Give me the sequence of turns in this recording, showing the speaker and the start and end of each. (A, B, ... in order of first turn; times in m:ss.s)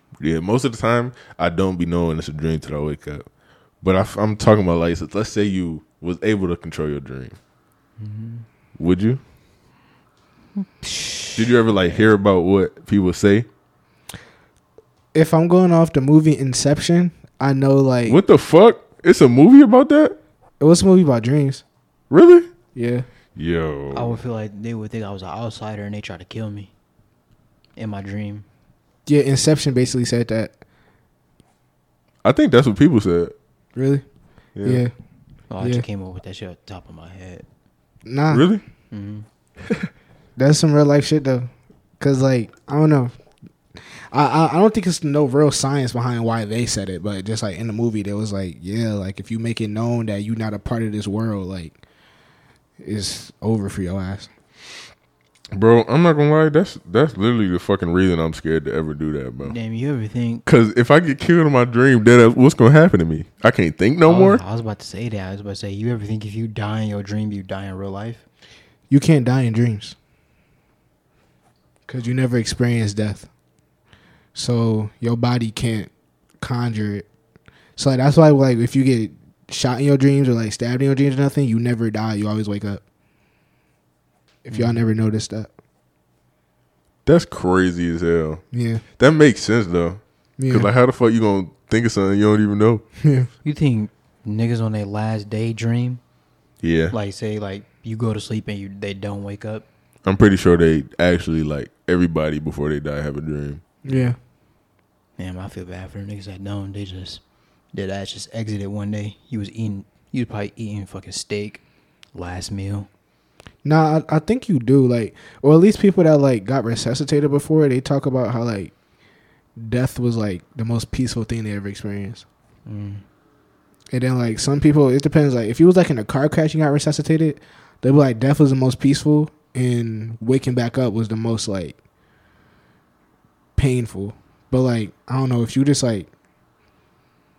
0:00.2-0:03.3 A
0:03.8-0:07.4 A
0:08.0-0:08.4 B
0:08.8-0:09.2 A
0:10.6-0:12.0 B
0:11.3-0:13.5 A
0:15.1-0:18.2 C
0:18.0-0:20.2 A
0:20.6-0:21.6 C
0:22.1-0:22.5 A
0:22.7-0:23.0 C
0:23.4-0:24.2 A
0:23.9-0:26.7 B
0:27.8-0:28.4 B
0:29.0-0:30.5 C
0:32.2-0:33.3 A
0:33.8-0:34.0 C
0:34.5-0:34.8 A
0:34.6-0:34.9 C
0:35.5-0:37.4 B
0:38.0-0:38.4 C
0:38.3-0:38.6 A
0:38.9-0:39.2 B
0:40.4-0:43.1 C
0:44.1-0:51.8 C
0:52.8-0:54.3 C
0:55.5-0:59.6 A
0:59.4-1:00.4 B
1:00.4-1:04.4 A
1:04.0-1:08.2 B
1:08.9-1:10.0 C
1:11.9-1:13.3 C
1:14.3-1:17.1 C
1:17.8-1:22.8 C
1:24.4-1:25.5 C
1:24.5-1:24.8 B
1:27.0-1:28.4 A
1:28.5-1:28.8 C
1:29.0-1:32.8 A
1:30.4-1:30.7 C
1:33.0-1:33.3 C
1:33.4-1:36.0 B
1:36.6-1:36.9 A
1:36.9-1:39.6 B
1:40.0-1:43.6 A
1:43.8-1:44.2 C
1:45.2-1:47.2 B
1:47.7-1:51.6 B
1:52.1-1:52.9 B
1:53.6-1:58.7 C
1:59.6-2:02.2 C
2:02.6-2:03.0 B
2:03.9-2:11.8 C
2:13.6-2:16.1 C